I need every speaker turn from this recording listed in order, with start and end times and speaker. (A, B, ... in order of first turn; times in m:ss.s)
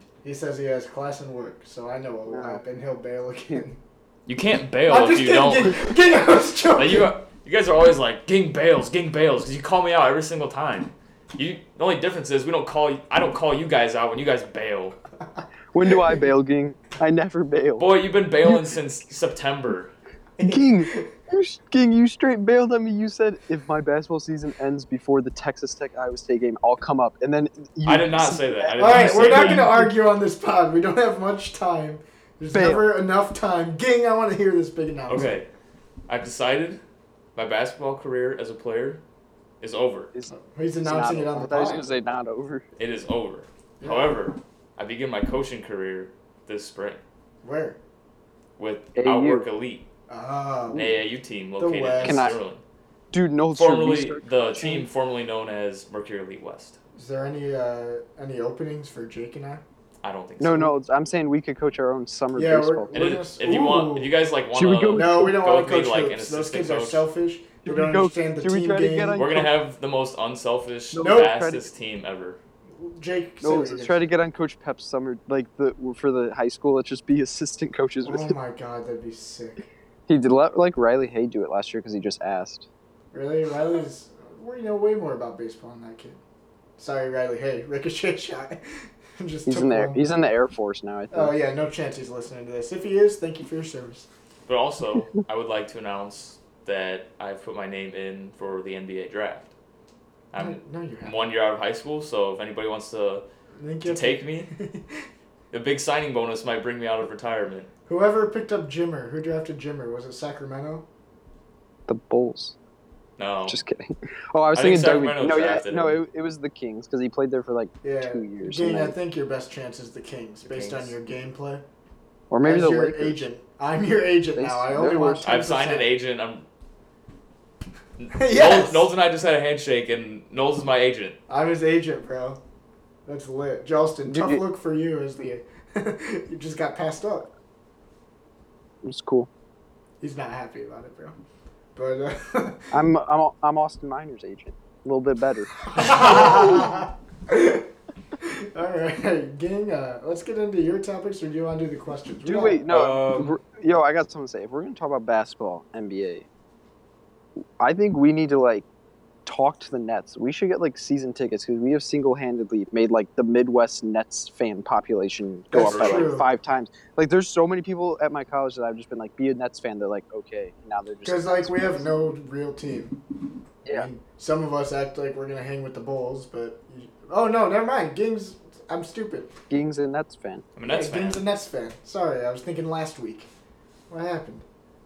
0:00.2-0:03.8 A
0:02.3-0:02.6 B
0:04.3-0:05.9 C
0:04.9-0:07.1 A
0:06.7-0:15.0 C
0:15.7-0:17.9 B
0:15.9-0:16.2 A
0:17.8-0:19.9 C
0:20.4-0:21.1 A
0:20.5-0:29.9 B
0:27.8-0:29.8 C
0:28.8-0:35.4 A
0:32.5-0:32.9 B
0:35.1-0:35.5 C
0:36.1-0:36.8 C
0:37.4-0:39.0 C
0:39.6-0:40.1 C
0:40.3-0:41.9 A
0:40.8-0:42.7 B
0:42.8-0:47.0 C
0:43.8-0:44.2 A
0:47.4-0:47.8 A
0:48.6-0:49.9 C
0:49.0-0:49.5 B
0:50.1-0:51.0 A
0:50.7-0:52.6 C
0:51.6-0:52.4 A
0:52.0-0:52.4 B
0:53.1-0:54.9 B
0:53.5-0:56.8 C
0:57.0-0:59.6 A
1:00.0-1:00.7 C
1:00.4-1:03.2 B
1:02.4-1:04.1 A
1:02.9-1:07.0 C
1:04.5-1:05.4 B
1:04.9-1:09.2 A
1:07.6-1:09.6 B
1:09.2-1:12.4 C
1:10.9-1:11.7 B
1:11.0-1:11.4 A
1:12.8-1:14.1 A
1:13.4-1:18.4 B
1:18.0-1:19.7 A
1:20.1-1:22.7 B
1:23.1-1:26.2 A
1:26.8-1:30.3 A
1:29.5-1:31.3 B
1:31.1-1:34.1 A
1:34.5-1:39.5 C
1:40.3-1:43.2 C
1:40.4-1:41.2 A
1:43.6-1:45.1 A
1:43.8-1:44.5 C
1:45.5-1:47.7 C
1:47.9-1:50.9 A
1:51.9-1:52.6 B
1:53.2-1:53.6 C
1:53.5-1:59.0 B
1:54.5-1:56.0 C
1:57.8-2:01.7 A
2:00.4-2:00.9 C
2:02.3-2:03.2 B
2:02.4-2:05.9 A
2:04.4-2:05.2 B
2:05.2-2:06.5 C
2:08.0-2:11.2 C
2:08.1-2:08.9 A
2:11.3-2:12.4 A
2:13.1-2:17.3 A
2:14.1-2:14.4 B
2:18.8-2:19.3 B
2:20.0-2:21.2 A
2:21.8-2:22.7 A
2:22.7-2:26.7 B
2:25.6-2:32.6 A
2:32.2-2:36.3 B
2:32.7-2:33.3 C
2:37.6-2:38.7 B
2:39.3-2:51.9 B
2:45.5-2:46.3 A
2:45.6-2:46.1 C
2:51.0-2:53.0 A
2:53.6-2:53.9 B
2:53.7-2:59.3 A
2:59.5-3:00.5 B
3:00.6-3:01.2 C
3:00.7-3:03.3 A
3:03.9-3:04.5 A